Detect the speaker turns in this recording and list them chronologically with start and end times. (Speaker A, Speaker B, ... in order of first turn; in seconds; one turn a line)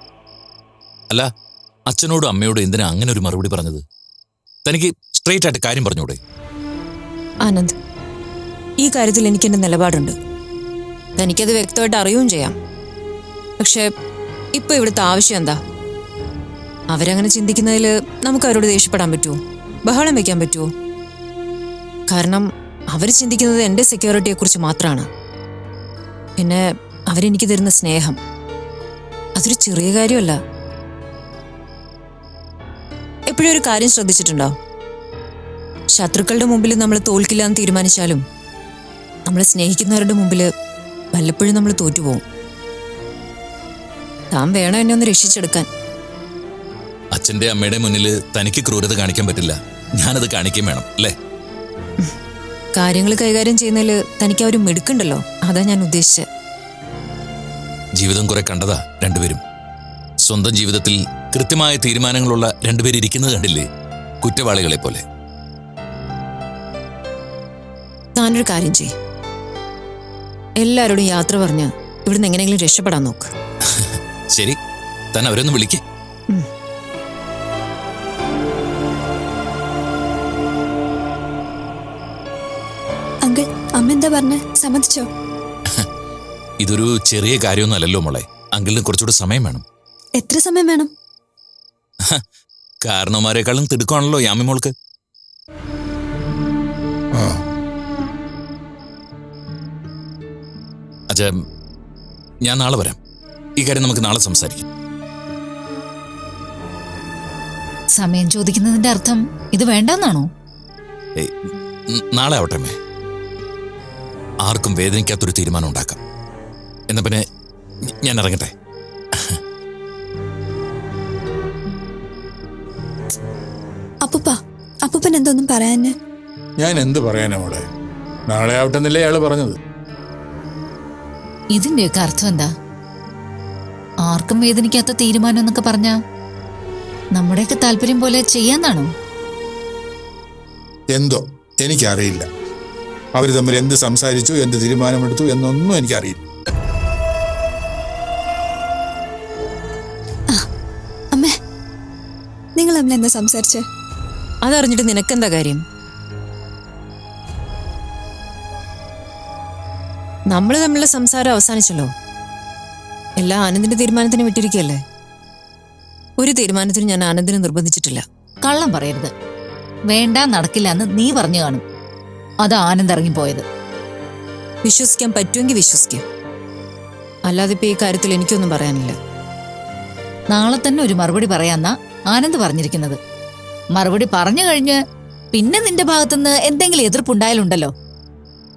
Speaker A: 1.9-3.8
Speaker A: 4.6-6.2
Speaker B: 7.4-7.7
Speaker B: 8.8-10.2
Speaker B: 11.2-12.6
Speaker B: 13.6-13.8
Speaker B: 14.6-15.6
Speaker B: 16.9-20.7
Speaker B: 22.1-25.1
Speaker B: 26.4-28.2
Speaker B: 29.4-30.4
Speaker B: 33.3-34.5
Speaker B: 35.9-38.2
Speaker B: 39.3-40.5
Speaker B: 41.1-42.2
Speaker B: 44.3-45.7
Speaker A: 47.1-51.1
Speaker B: 52.7-56.2
Speaker A: 58.0-59.4
Speaker A: 60.2-63.7
Speaker A: 64.2-65.0
Speaker B: 68.2-68.9
Speaker B: 70.6-73.3
Speaker A: 73.7-74.6
Speaker A: 75.1-75.8
Speaker C: 83.2-85.0
Speaker A: 86.6-89.6
Speaker C: 90.2-90.9
Speaker A: 92.8-94.7
Speaker D: 97.1-97.4
Speaker A: 102.4-103.0
Speaker A: 103.6-104.6
Speaker E: 108.0-110.3
Speaker A: 111.2-112.8
Speaker A: 114.4-116.0
Speaker A: 116.9-117.2
Speaker A: 117.8-118.5
Speaker C: 124.0-124.3
Speaker C: 124.8-125.9
Speaker D: 126.6-127.7
Speaker D: 128.3-129.6
Speaker E: 131.5-132.5
Speaker E: 134.0-135.9
Speaker E: 137.2-138.9
Speaker D: 140.9-142.2
Speaker D: 143.1-146.2
Speaker C: 152.6-153.6
Speaker B: 154.4-155.6
Speaker B: 160.3-161.9
Speaker B: 163.2-164.8
Speaker B: 166.2-168.0
Speaker E: 168.4-169.1
Speaker E: 169.9-171.6
Speaker E: 172.4-173.4
Speaker B: 174.6-176.0
Speaker B: 177.3-178.9
Speaker E: 180.3-183.0
Speaker E: 183.7-184.8
Speaker E: 185.3-187.7